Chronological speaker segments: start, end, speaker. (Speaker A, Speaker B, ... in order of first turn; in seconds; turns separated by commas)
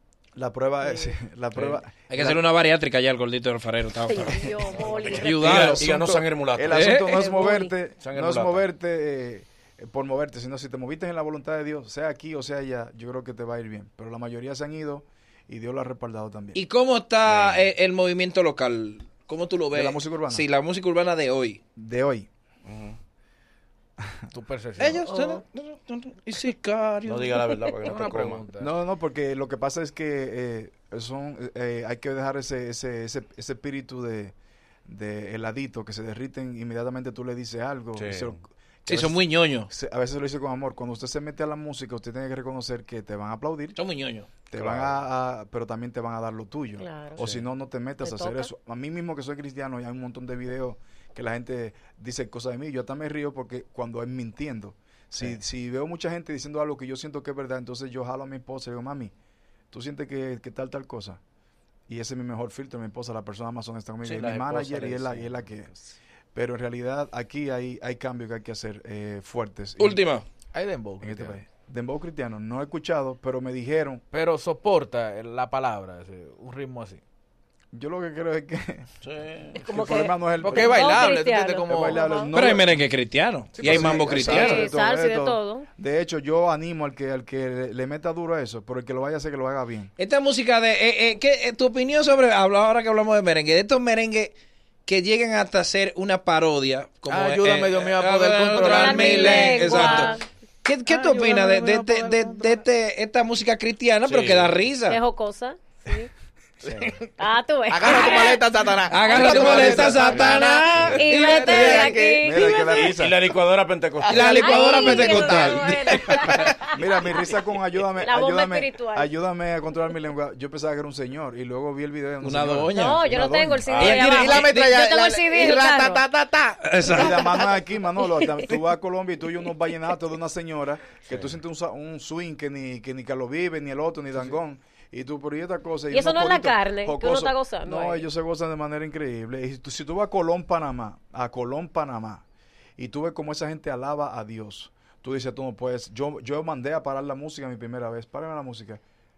Speaker A: 0.3-2.4, Speaker B: 0.9-1.1, Speaker C: 2.1-4.4, Speaker B: 4.1-5.8, Speaker A: 4.5-16.6, Speaker C: 5.1-5.9, Speaker D: 5.2-7.0, Speaker C: 6.7-7.1, Speaker B: 7.0-7.7, Speaker D: 8.0-8.6, Speaker C: 16.5-21.6, Speaker D: 17.2-17.6, Speaker A: 19.7-20.4, Speaker A: 21.8-22.3, Speaker D: 22.6-23.0, Speaker A: 24.0-24.2, Speaker E: 24.3-25.1, Speaker C: 24.8-27.8, Speaker B: 25.1-25.4, Speaker D: 27.0-28.4, Speaker E: 27.8-28.7, Speaker A: 28.6-34.3, Speaker A: 34.9-43.8, Speaker D: 38.0-38.3, Speaker C: 38.9-39.7, Speaker C: 43.8-44.3, Speaker A: 44.5-59.1, Speaker D: 44.5-45.0, Speaker B: 46.8-47.2, Speaker D: 47.2-47.5, Speaker B: 48.0-48.5, Speaker A: 59.7-61.2, Speaker A: 61.9-65.7, Speaker D: 64.0-65.8, Speaker A: 66.3-70.0, Speaker C: 69.8-70.2, Speaker E: 70.5-71.4, Speaker A: 71.0-74.0, Speaker E: 74.1-77.0, Speaker A: 77.7-78.9, Speaker D: 79.0-79.6, Speaker B: 79.5-82.3, Speaker A: 79.6-82.8, Speaker E: 80.4-82.2, Speaker C: 82.3-84.7, Speaker E: 83.5-84.2, Speaker A: 83.6-89.9, Speaker B: 84.2-85.7, Speaker C: 90.0-94.3, Speaker C: 94.8-105.0, Speaker E: 97.1-100.2, Speaker B: 98.6-100.2, Speaker E: 100.8-102.6, Speaker D: 104.0-104.5, Speaker B: 104.9-106.1, Speaker E: 106.6-107.1, Speaker A: 106.7-106.9, Speaker B: 107.2-108.5, Speaker E: 107.7-112.9, Speaker C: 108.9-112.0, Speaker B: 109.1-109.6, Speaker A: 109.2-110.0, Speaker D: 110.0-110.9, Speaker B: 111.0-112.6, Speaker A: 112.2-113.2, Speaker D: 112.4-114.7, Speaker E: 114.0-116.6, Speaker C: 114.1-116.5, Speaker B: 114.4-117.3, Speaker A: 116.7-124.1, Speaker B: 118.0-119.1, Speaker C: 122.2-123.0, Speaker B: 122.7-126.0, Speaker D: 123.7-123.9, Speaker C: 123.8-124.7, Speaker E: 123.8-127.4, Speaker C: 126.6-127.2, Speaker A: 126.9-142.2, Speaker B: 128.2-128.5, Speaker B: 135.9-138.1, Speaker A: 142.8-148.8